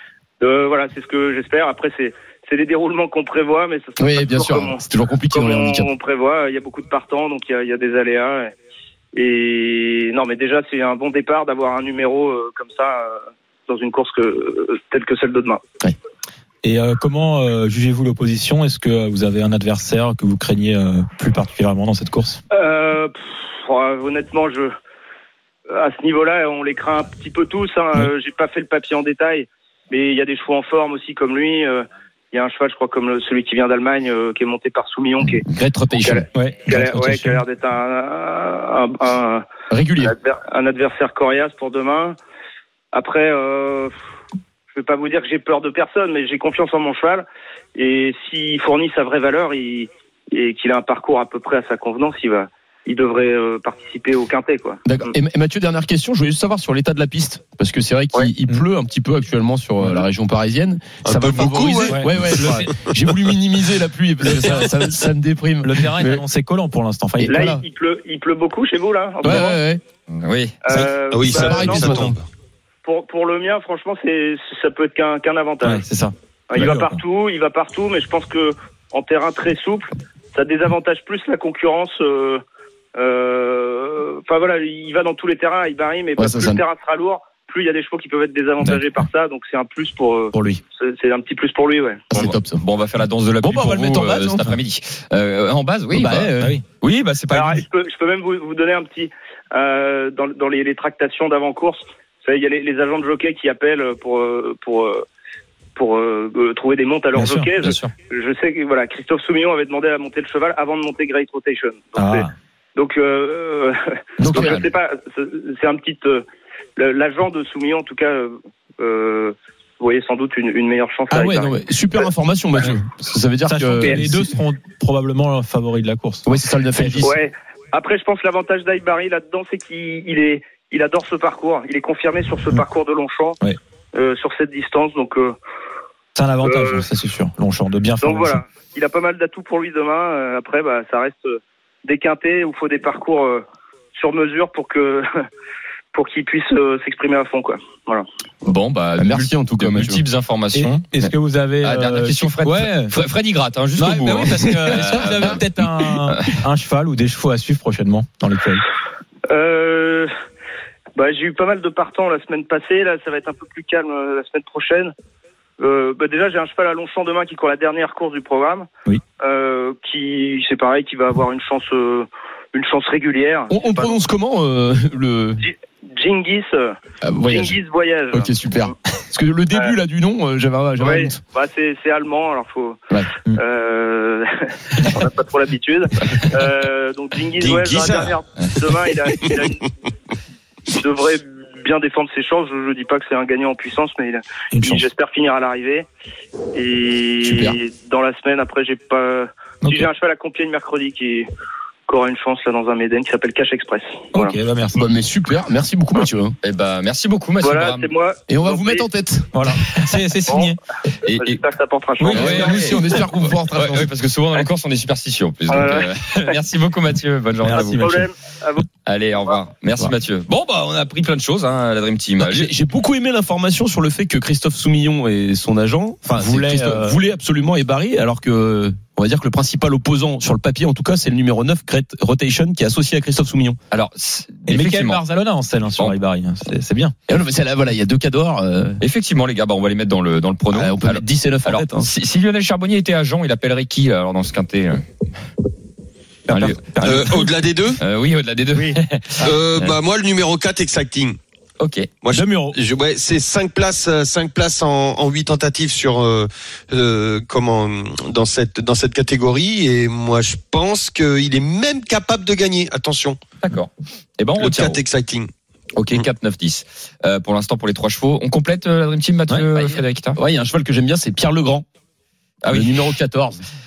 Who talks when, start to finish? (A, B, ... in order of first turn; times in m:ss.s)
0:00.4-0:08.5 A
0:04.0-0:05.9 B
0:09.1-0:15.6 A
0:16.6-0:22.4 C
0:22.5-0:24.7 A
0:25.7-0:42.2 A
0:35.5-0:36.3 B
0:36.3-0:37.4 C
0:39.7-0:40.2 B
0:42.9-0:43.9 A
0:44.7-0:55.1 A
0:54.8-1:06.2 B
1:01.0-1:02.4 D
1:01.9-1:02.7 C
1:05.6-1:07.6 C
1:07.2-1:07.6 B
1:07.3-1:09.6 A
1:09.2-1:09.8 B
1:10.1-1:10.6 E
1:10.6-1:12.0 A
1:10.7-1:12.2 B
1:11.1-1:12.2 D
1:12.8-1:15.8 A
1:15.6-1:17.0 C
1:16.5-1:22.4 A
1:22.9-1:32.0 A
1:26.2-1:26.6 B
1:30.3-1:30.6 C
1:32.1-1:32.6 B
1:32.1-1:37.6 E
1:33.4-1:34.5 B
1:35.9-1:36.6 B
1:37.3-1:45.0 A
1:45.8-1:56.2 A
1:47.1-1:47.9 C
1:52.0-1:52.3 C
1:54.2-1:54.6 B
1:56.8-2:02.1 A
2:01.1-2:04.3 B
2:03.5-2:07.1 C
2:03.8-2:04.1 A
2:06.2-2:07.2 B
2:07.0-2:13.4 A
2:13.9-2:15.4 A
2:16.2-2:18.4 C
2:16.4-2:16.9 A
2:18.0-2:25.1 A
2:25.9-2:28.0 A
2:28.4-2:35.5 E
2:29.0-2:30.0 B
2:30.5-2:32.9 C
2:33.8-2:38.6 C
2:35.1-2:35.3 B
2:36.0-2:36.3 E
2:39.3-2:40.1 A
2:40.9-2:44.9 A
2:45.6-2:54.0 A
2:53.5-2:55.4 B
2:55.4-2:58.7 A
2:57.0-2:57.6 B
2:58.1-3:01.2 B
3:00.8-3:09.7 A
3:07.4-3:08.2 D
3:10.7-3:15.9 A
3:14.5-3:14.9 C
3:16.5-3:21.3 A
3:17.2-3:17.6 B
3:19.6-3:19.9 C
3:21.9-3:24.4 A
3:24.1-3:24.8 C
3:24.7-3:26.4 B
3:26.4-3:27.9 E
3:27.4-3:28.9 A
3:28.3-3:29.3 B
3:29.3-3:30.6 C
3:30.3-3:30.6 A
3:31.0-3:31.4 E
3:31.1-3:32.7 A
3:32.0-3:32.5 C
3:32.0-3:38.0 E
3:32.1-3:33.9 B
3:35.5-3:36.4 A
3:37.4-3:38.0 C
3:37.6-3:38.6 A
3:38.8-3:42.5 E
3:42.2-3:53.6 B
3:46.2-3:47.0 C
3:53.7-3:55.0 E
3:54.5-3:56.9 C
3:57.1-3:58.8 B
3:58.8-4:04.9 E
4:00.5-4:01.9 B
4:06.3-4:07.0 C
4:06.3-4:07.2 E
4:06.8-4:07.8 D
4:07.8-4:09.7 E
4:08.5-4:09.2 C
4:09.2-4:11.2 D
4:11.6-4:11.9 E
4:12.0-4:23.2 D
4:12.1-4:12.6 C
4:23.4-4:24.8 E
4:24.4-4:25.3 D
4:25.8-4:30.2 E
4:29.3-4:31.6 B
4:32.4-4:32.9 E
4:32.5-4:33.4 B